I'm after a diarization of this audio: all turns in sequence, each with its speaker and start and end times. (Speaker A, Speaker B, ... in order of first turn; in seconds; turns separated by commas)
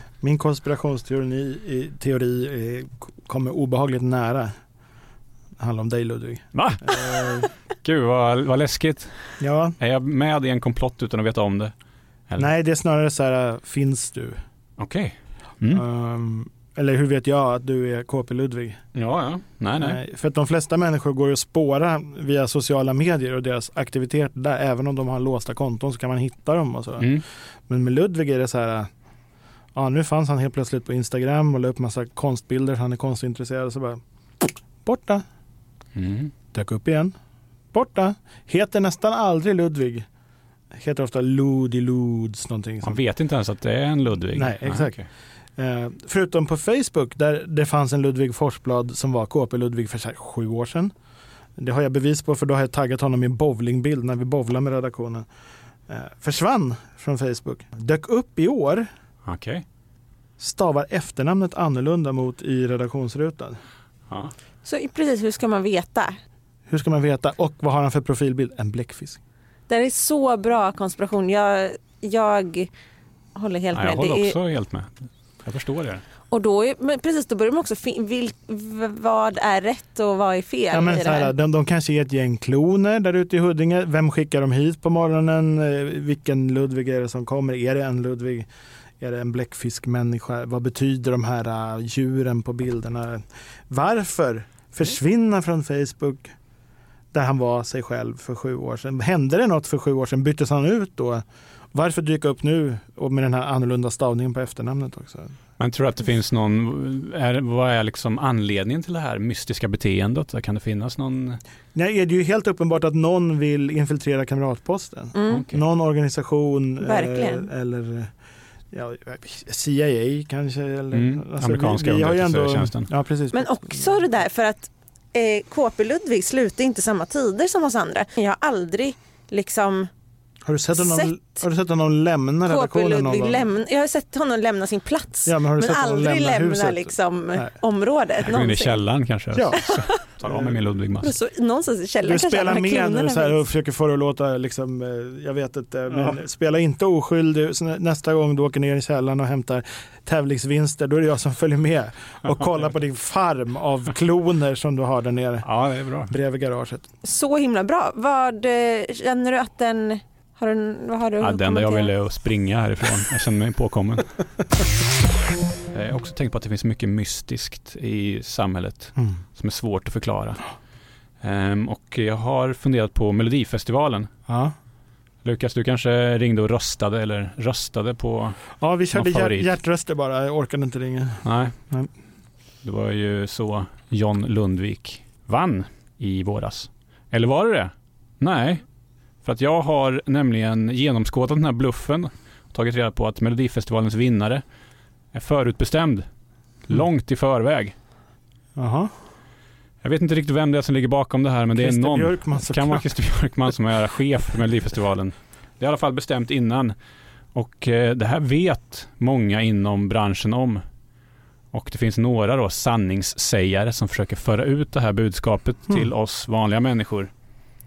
Speaker A: 0.2-4.5, Speaker A: 5.6-7.5, Speaker B: 6.5-9.2, Speaker A: 9.4-9.8, Speaker B: 9.8-11.7, Speaker A: 12.4-14.4, Speaker B: 14.8-15.8, Speaker A: 15.7-18.8, Speaker B: 18.9-20.0, Speaker A: 19.8-28.9, Speaker A: 29.8-35.2, Speaker B: 36.0-36.3, Speaker A: 36.5-37.1, Speaker A: 37.7-40.1, Speaker A: 40.7-43.0, Speaker B: 42.8-45.0, Speaker A: 44.3-45.0, Speaker A: 45.6-50.9, Speaker A: 51.6-55.3, Speaker A: 55.9-58.9, Speaker B: 59.2-59.6, Speaker A: 60.4-63.6, Speaker C: 64.6-66.2, Speaker A: 66.7-69.2, Speaker C: 69.7-72.7, Speaker C: 73.4-74.4, Speaker B: 73.7-76.0, Speaker C: 76.3-81.3, Speaker A: 80.7-88.5, Speaker A: 89.0-96.3, Speaker A: 97.1-105.3, Speaker B: 105.6-111.4, Speaker A: 111.8-118.1, Speaker C: 115.2-115.5, Speaker B: 115.3-115.6, Speaker C: 116.8-117.5, Speaker A: 118.7-123.9, Speaker B: 120.9-122.9, Speaker C: 123.3-129.9, Speaker A: 130.4-133.5, Speaker C: 130.8-131.3, Speaker C: 132.5-138.8, Speaker A: 135.3-137.5, Speaker B: 138.2-141.1, Speaker A: 139.3-139.7, Speaker C: 139.6-140.0, Speaker A: 140.2-140.6, Speaker C: 141.0-143.4, Speaker A: 142.0-155.5, Speaker B: 155.4-156.1, Speaker A: 156.1-156.9, Speaker C: 157.0-161.9, Speaker B: 161.2-164.1, Speaker B: 165.7-170.4, Speaker B: 171.2-174.1, Speaker A: 174.3-174.5, Speaker B: 175.2-178.4, Speaker A: 178.6-181.9, Speaker B: 178.9-179.5, Speaker B: 181.2-181.6, Speaker B: 182.6-188.6, Speaker B: 189.2-194.4, Speaker B: 195.1-196.1, Speaker B: 196.7-197.7, Speaker A: 198.6-198.9, Speaker B: 199.8-206.8, Speaker A: 201.6-202.9, Speaker B: 207.3-210.6, Speaker B: 211.5-217.1